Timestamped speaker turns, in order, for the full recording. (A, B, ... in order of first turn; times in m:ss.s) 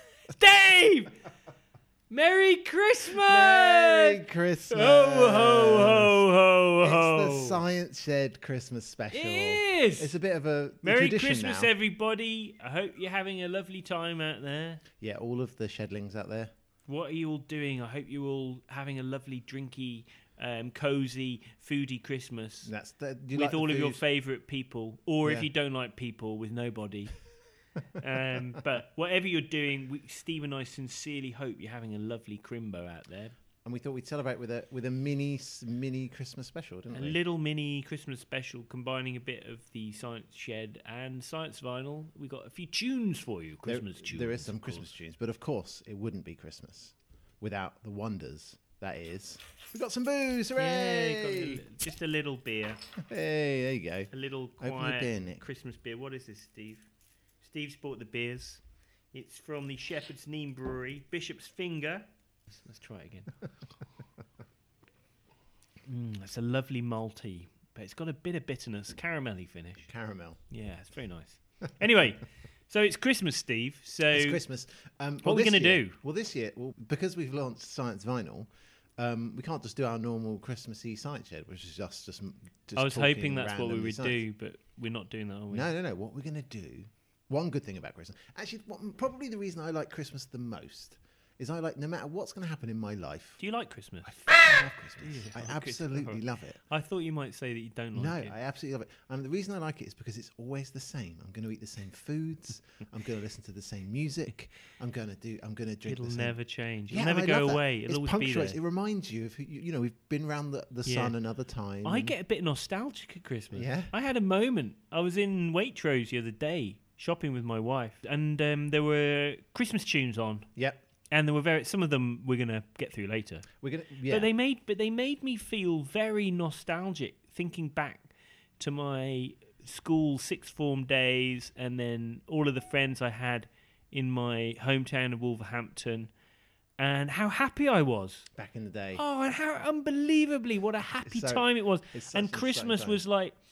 0:00.4-0:01.2 A
0:02.1-0:07.6 A
0:03.2-0:06.2 B
0:06.8-0:11.7 B
0:09.1-0:10.2 A
0:10.8-0:14.8 A
0:15.0-0:16.5 B
0:16.9-0:22.7 A
0:22.7-0:24.0 B
0:23.4-0:27.2 A
0:28.0-0:33.4 A
0:33.6-0:37.2 B
0:36.9-0:44.8 A
0:43.7-0:51.7 B
0:50.6-0:52.8 A
0:53.0-0:55.4 B
0:54.1-0:56.9 A
0:57.4-1:03.3 A
1:05.8-1:09.9 A
1:09.9-1:10.4 B
1:10.5-1:14.4 A
1:14.1-1:24.2 B
1:15.2-1:16.0 A
1:22.8-1:25.7 A
1:25.5-1:33.4 B
1:33.4-1:38.4 A
1:34.0-1:36.6 B
1:38.0-1:46.4 B
1:45.8-1:48.6 A
1:46.9-1:52.1 B
1:50.9-1:51.2 A
1:51.8-2:00.5 A
1:53.5-1:53.9 B
2:00.6-2:00.8 B
2:01.1-2:03.5 A
2:03.6-2:04.3 B
2:04.1-2:16.1 A
2:16.8-2:18.3 A
2:18.4-2:19.0 B
2:19.0-2:23.4 A
2:21.0-2:23.0 B